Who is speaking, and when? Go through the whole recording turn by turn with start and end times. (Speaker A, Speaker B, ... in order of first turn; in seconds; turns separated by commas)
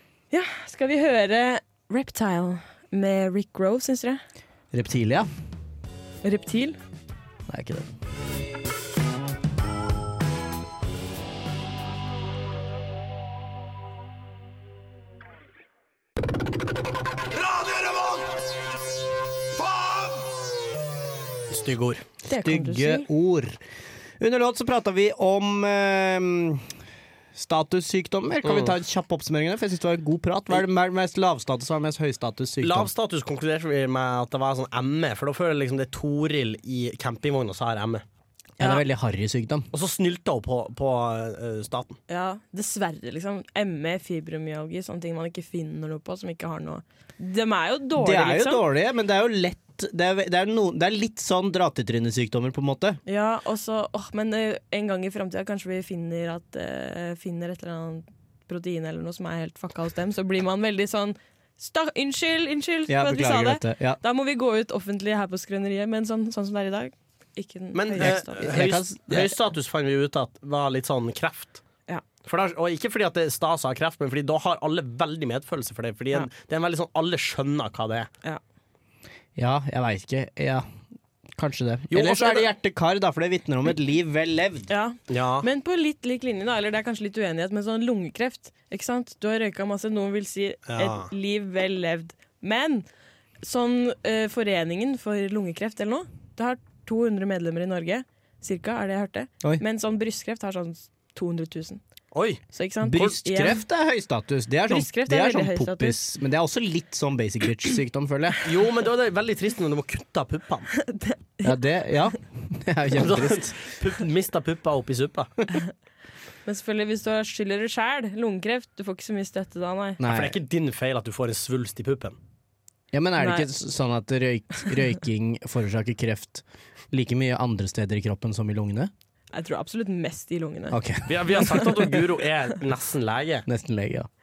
Speaker A: 0.3-4.2, Speaker B: 4.7-5.3, Speaker A: 6.2-6.8, Speaker B: 7.5-7.9, Speaker C: 21.5-22.1, Speaker A: 22.3-23.1, Speaker B: 22.3-23.6, Speaker B: 24.2-26.7, Speaker B: 27.3-32.9, Speaker C: 28.4-28.7, Speaker C: 32.6-38.0, Speaker B: 38.6-39.7, Speaker C: 39.7-42.0, Speaker A: 42.1-48.6, Speaker B: 48.0-53.0, Speaker A: 53.0-68.6, Speaker B: 62.9-64.0, Speaker C: 67.7-71.6, Speaker B: 68.0-69.3, Speaker C: 72.2-78.1, Speaker B: 79.3-80.7, Speaker B: 81.3-84.7, Speaker C: 81.9-82.5, Speaker A: 84.7-92.8, Speaker C: 85.1-85.5, Speaker C: 90.7-91.1, Speaker A: 93.4-101.8, Speaker C: 102.1-102.4, Speaker A: 102.5-103.6, Speaker B: 102.8-108.4, Speaker A: 104.7-106.0, Speaker C: 108.4-110.7, Speaker A: 110.9-111.6, Speaker B: 111.4-113.5, Speaker C: 112.9-115.3, Speaker A: 116.5-120.0, Speaker B: 120.0-120.3, Speaker C: 120.0-122.2, Speaker B: 122.9-128.9, Speaker A: 123.2-123.5, Speaker A: 129.3-130.8, Speaker B: 130.7-131.6, Speaker C: 131.1-133.4, Speaker B: 133.5-134.1